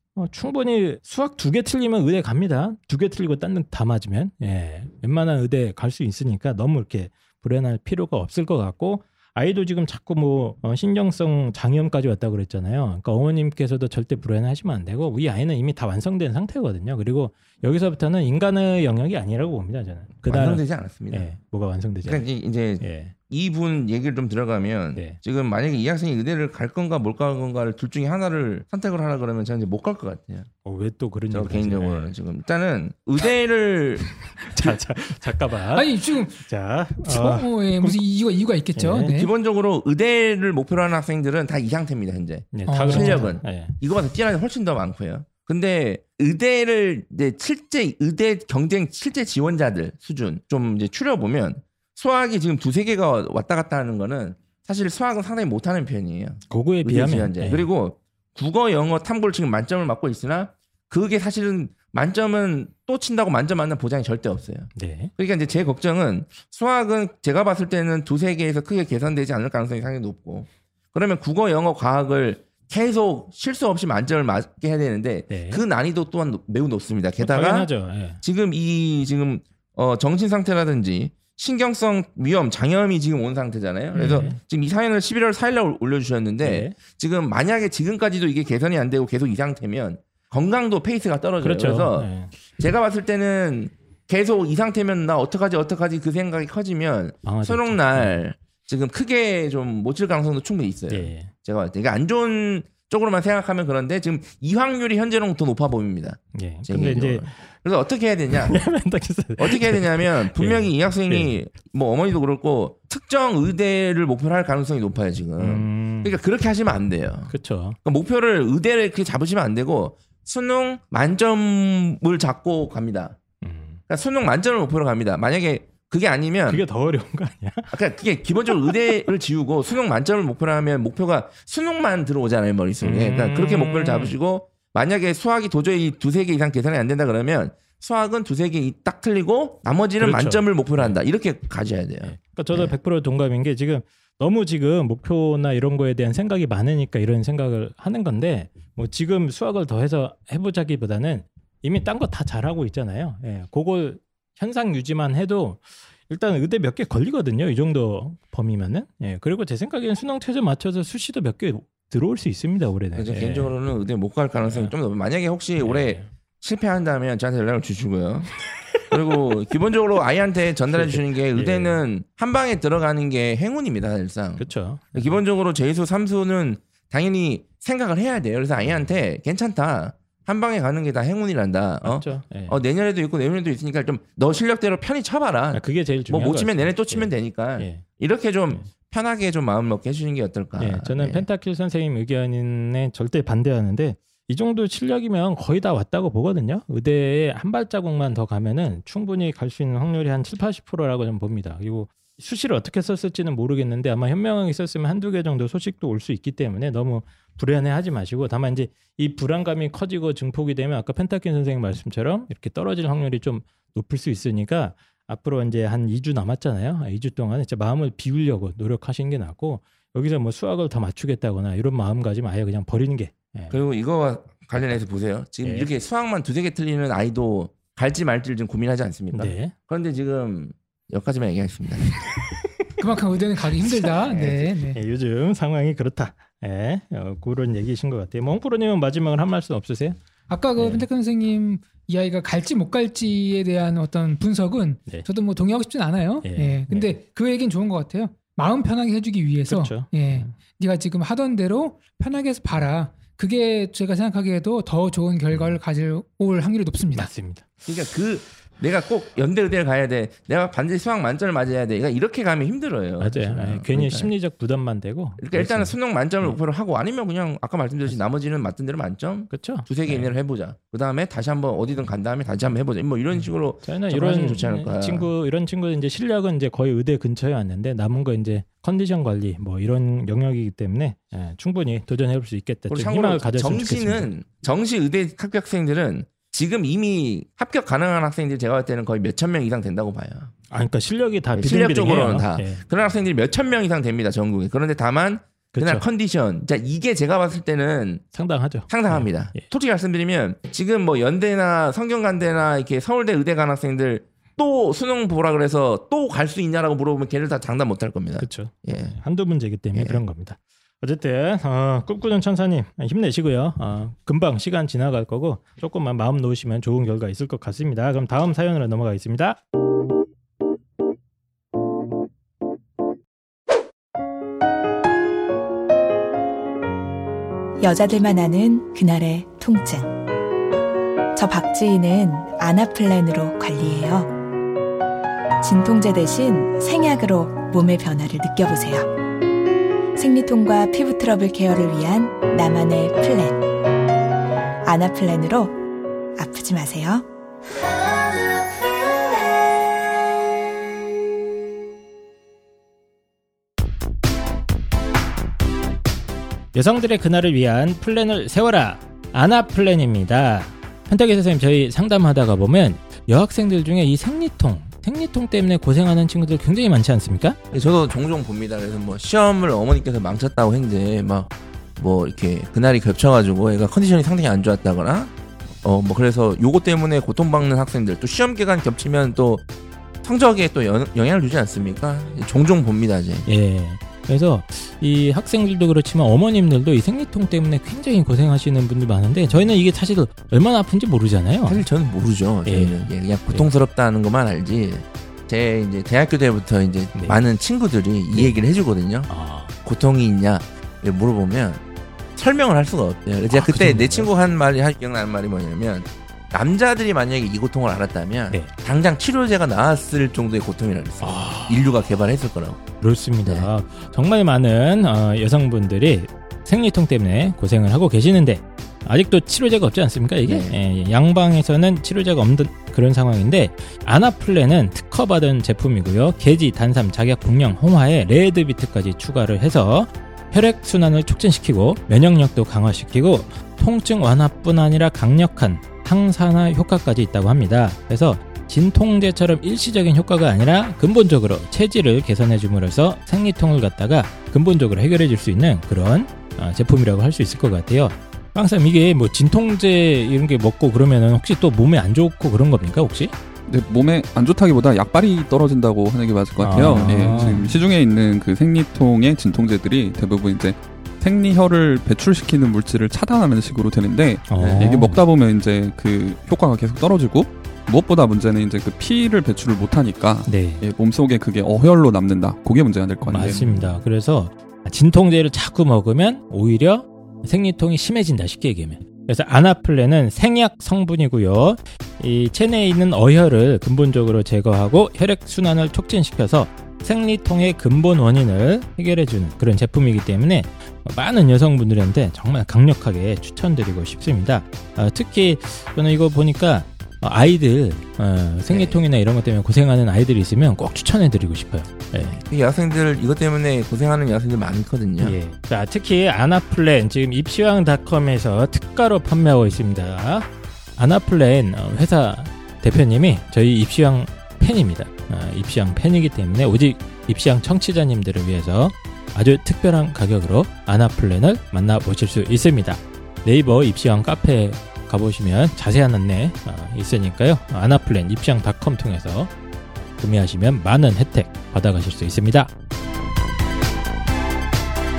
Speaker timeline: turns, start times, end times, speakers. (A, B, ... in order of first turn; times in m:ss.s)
0:00.2-0:22.2 A
0:20.2-0:21.3 B
0:22.0-0:30.5 B
0:22.8-0:23.1 A
0:30.6-0:32.1 A
0:31.3-0:34.7 B
0:34.4-0:38.0 A
0:35.7-0:36.4 C
0:37.0-0:39.3 C
0:38.7-0:39.1 A
0:39.1-1:17.7 B
0:42.5-0:43.8 A
0:42.7-0:43.3 C
0:56.5-0:57.7 A
1:04.7-1:05.1 A
1:15.3-1:15.6 A
1:17.2-1:18.2 A
1:18.2-1:48.6 B
1:23.9-1:24.4 A
1:26.4-1:26.8 A
1:31.4-1:32.3 A
1:37.2-1:38.2 A
1:40.9-1:41.3 A
1:46.3-1:47.3 A
1:48.3-1:51.3 A
1:49.4-2:03.2 B
1:55.4-1:56.2 A
1:57.3-1:57.8 A
2:03.4-2:03.8 A
2:03.9-2:06.6 B
2:06.5-2:07.7 A
2:07.7-2:22.8 B
2:12.8-2:14.1 A
2:20.0-2:21.0 A
2:22.0-2:43.5 A
2:43.0-3:11.2 B
2:44.4-2:44.7 A
2:45.6-2:46.1 A
2:50.7-2:51.8 A
2:54.4-2:55.2 A
3:01.8-3:02.6 A
3:05.5-3:07.8 A
3:10.6-3:43.6 A
3:43.5-3:51.9 B
3:45.4-3:45.7 A
3:49.1-3:49.5 A
3:52.8-3:54.8 C
3:54.0-4:00.0 A
4:00.3-4:17.1 C
4:00.6-4:00.8 A
4:06.2-4:06.9 A
4:09.5-4:10.3 A
4:15.3-4:15.6 A
4:17.0-4:17.5 A
4:17.6-4:24.1 B
4:23.0-4:26.4 A
4:25.2-4:35.1 B
4:29.3-4:30.1 A
4:33.2-4:44.1 A
4:42.7-4:50.3 B
4:50.5-4:52.6 A
4:51.4-4:58.0 B
4:55.5-4:55.8 A
4:58.1-4:59.4 A
4:58.7-5:09.0 B
5:08.2-5:19.4 A
5:09.7-5:10.0 B
5:27.6-5:29.9 D
5:31.1-5:34.1 D
5:35.4-5:38.9 D
5:40.0-5:43.5 D
5:44.6-5:45.6 D
5:46.2-5:47.1 D
5:56.5-6:07.4 A
6:07.5-6:19.4 B
6:20.0-6:23.3 B
6:23.3-6:31.6 A
6:31.4-6:39.1 B
6:32.4-6:33.5 A
6:36.9-6:37.2 A
6:39.1-6:39.5 A
6:39.6-6:41.6 B
6:42.2-6:52.6 B
6:43.3-6:44.1 A
6:51.0-6:51.6 A
6:52.8-7:33.1 A
7:00.3-7:00.6 B
7:33.5-7:53.7 E
7:36.4-7:37.6 A
7:44.3-7:45.0 A
7:50.2-7:50.6 A
7:53.0-8:22.2 A
8:18.5-8:18.8 B
8:22.2-8:25.2 B
8:25.0-8:49.3 A
8:50.0-8:52.5 A